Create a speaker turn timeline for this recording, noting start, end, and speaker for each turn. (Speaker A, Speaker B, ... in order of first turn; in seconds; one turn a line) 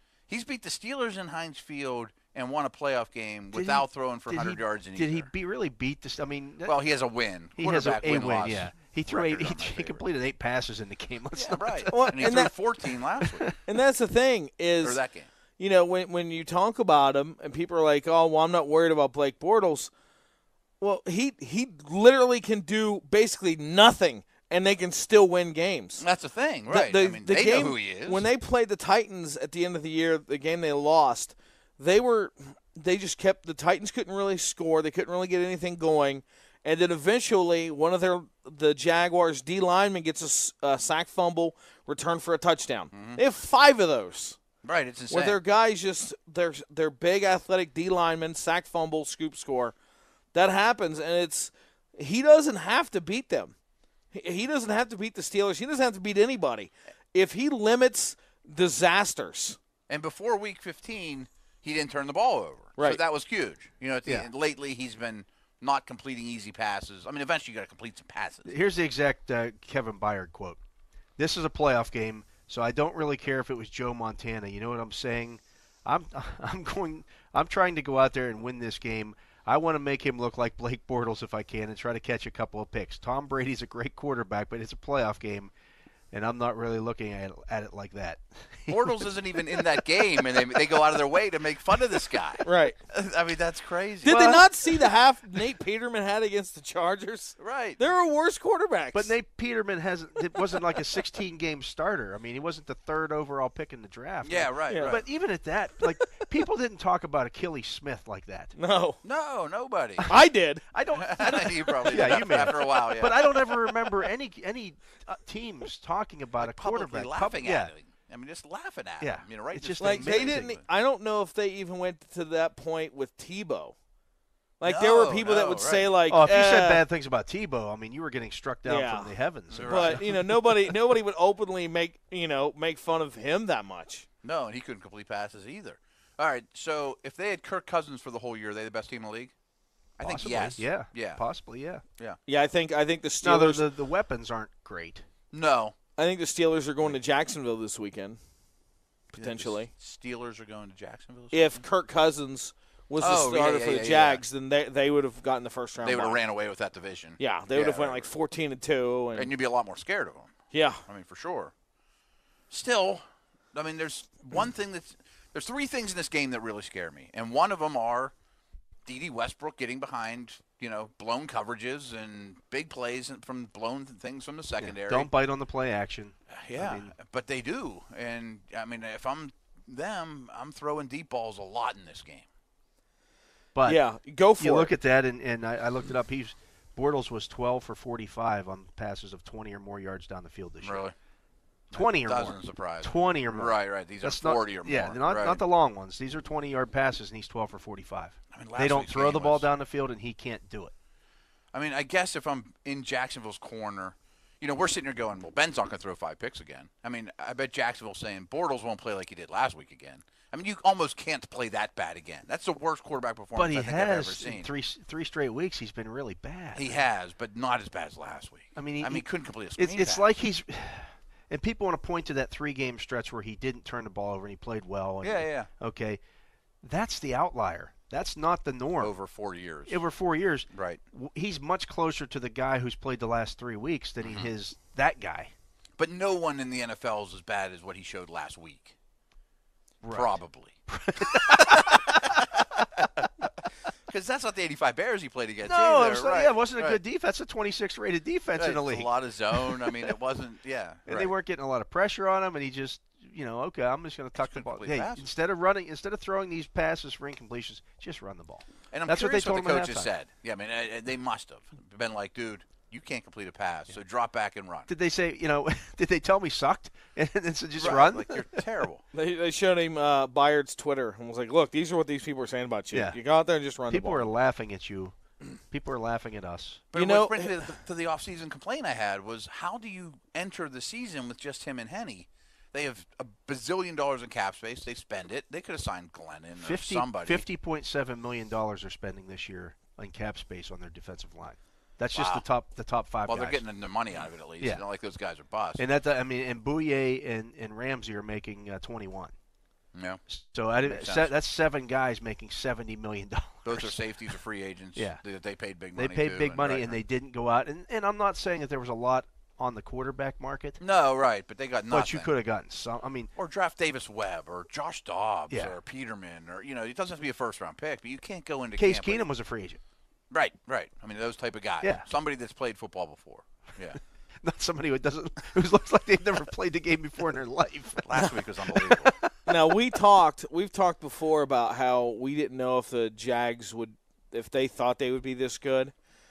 Speaker A: 0.3-5.3
Speaker B: 3.5-7.0
Speaker A: 6.6-10.0
Speaker B: 7.5-13.5
Speaker A: 11.3-13.5
Speaker C: 11.9-12.5
Speaker C: 13.7-15.0
Speaker A: 14.8-15.3
Speaker C: 15.6-19.9
Speaker C: 20.8-26.0
Speaker A: 26.0-28.3
Speaker C: 26.7-44.4
Speaker A: 42.9-43.2
Speaker A: 44.6-45.4
Speaker C: 45.1-49.8
Speaker C: 50.3-53.5
Speaker C: 54.1-59.6
Speaker A: 59.9-68.5
Speaker B: 68.5-70.6
Speaker B: 71.2-85.5
Speaker B: 86.1-90.8
Speaker A: 88.7-94.2
Speaker C: 92.4-92.8
Speaker C: 94.0-99.1
Speaker B: 94.0-94.9
Speaker A: 97.4-97.8
Speaker B: 98.9-108.6
Speaker A: 104.2-105.1
Speaker C: 104.7-105.0
Speaker C: 108.5-109.0
Speaker A: 109.0-110.2
Speaker C: 110.1-110.6
Speaker B: 110.7-117.7
Speaker A: 110.9-113.6
Speaker C: 111.9-112.5
Speaker A: 116.4-120.6
Speaker B: 119.0-120.5
Speaker C: 119.8-123.8
Speaker C: 124.6-126.9
Speaker A: 124.6-125.9
Speaker B: 126.1-130.8
Speaker C: 128.7-134.1
Speaker A: 129.5-130.0
Speaker A: 134.2-139.3
Speaker A: 140.0-141.2
Speaker B: 140.0-141.8
Speaker C: 142.3-143.7
Speaker B: 143.2-145.1
Speaker A: 145.3-145.8
Speaker C: 146.0-148.2
Speaker A: 149.1-151.7
Speaker C: 149.2-149.7
Speaker C: 151.3-156.2
Speaker A: 153.0-154.2
Speaker A: 155.8-158.1
Speaker C: 157.2-159.3
Speaker A: 159.2-161.5
Speaker C: 160.5-160.8
Speaker A: 162.5-168.1
Speaker A: 168.9-175.1
Speaker B: 174.6-176.9
Speaker A: 176.3-182.3
Speaker B: 183.6-183.8
Speaker C: 183.7-184.7
Speaker B: 184.4-190.9
Speaker A: 190.6-190.9
Speaker B: 191.7-200.7
Speaker A: 191.7-195.4
Speaker A: 198.3-199.5
Speaker A: 201.5-214.5
Speaker B: 213.3-216.8
Speaker A: 216.5-220.1
Speaker B: 218.6-226.0
Speaker A: 225.0-225.5
Speaker B: 226.6-228.9
Speaker A: 228.8-229.8
Speaker B: 229.7-235.3
Speaker A: 230.5-230.8
Speaker A: 234.0-234.3
Speaker A: 235.8-238.8
Speaker B: 239.8-242.2
Speaker A: 239.9-240.6
Speaker A: 241.1-243.3
Speaker A: 243.9-246.8
Speaker B: 245.4-249.9
Speaker A: 248.4-251.1
Speaker B: 250.9-259.9
Speaker A: 254.2-255.1
Speaker A: 258.7-264.7
Speaker B: 264.7-268.3
Speaker A: 267.6-268.8
Speaker C: 268.9-274.1
Speaker B: 272.7-273.0
Speaker B: 273.7-276.6
Speaker A: 276.7-287.3
Speaker C: 276.7-277.4
Speaker B: 286.4-293.4
Speaker A: 291.9-292.3
Speaker A: 293.1-295.6
Speaker B: 295.6-299.1
Speaker A: 299.7-300.0
Speaker B: 300.1-303.9
Speaker A: 300.6-301.1
Speaker A: 303.4-306.8
Speaker B: 304.8-305.0
Speaker B: 305.8-310.6
Speaker A: 310.6-312.1
Speaker B: 311.7-313.1
Speaker A: 313.2-319.1
Speaker B: 315.3-315.6
Speaker B: 318.6-319.6
Speaker A: 320.1-323.8
Speaker B: 321.6-321.9
Speaker B: 324.2-329.3
Speaker A: 327.8-328.9
Speaker C: 329.3-335.7